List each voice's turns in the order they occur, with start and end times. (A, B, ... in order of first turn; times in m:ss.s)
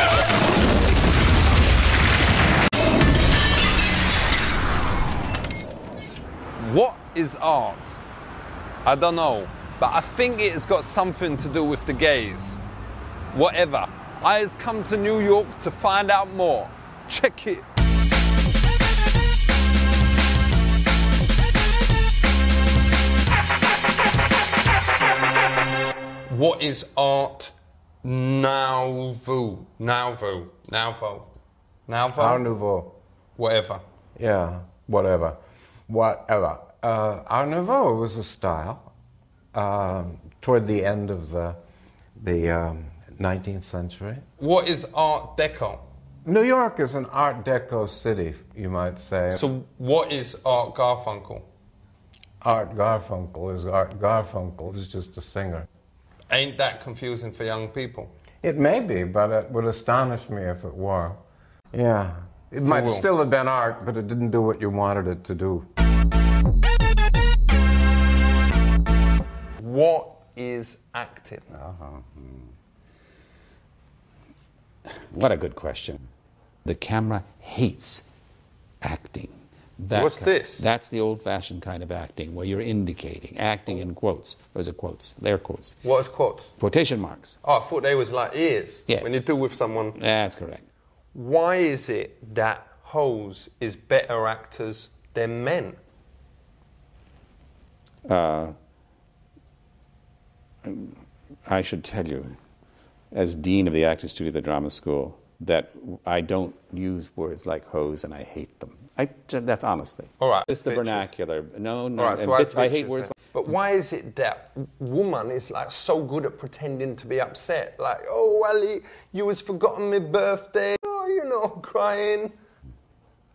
0:06.6-0:08.0 A
0:08.8-0:12.6 A
0:13.3-0:17.6 A
0:26.3-0:31.3 A
0:31.9-0:32.4 A
0:32.1-0:32.9 B
0:33.4-0:33.8 A
0:34.2-0:38.9 B
0:39.5-0:41.6 B
0:42.2-0:44.2 B
0:44.4-0:45.8 A
0:46.2-0:49.4 B
0:49.3-0:51.4 A
0:52.4-0:55.7 B
0:56.3-0:58.1 A
0:58.4-1:01.2 B
1:01.7-1:05.7 B
1:02.6-1:03.1 A
1:09.6-1:11.5 A
1:11.5-1:12.4 C
1:15.1-1:16.0 C
1:16.6-1:18.0 C
1:18.8-1:25.8 C
1:19.9-1:20.6 A
1:25.8-1:26.5 A
1:26.6-1:27.4 C
1:27.4-1:30.0 A
1:29.9-1:30.6 C
1:31.1-1:35.8 A
1:38.1-1:38.5 C
1:40.6-1:42.4 C
1:43.1-1:53.1 C
1:50.2-1:51.1 A
1:52.0-2:02.4 A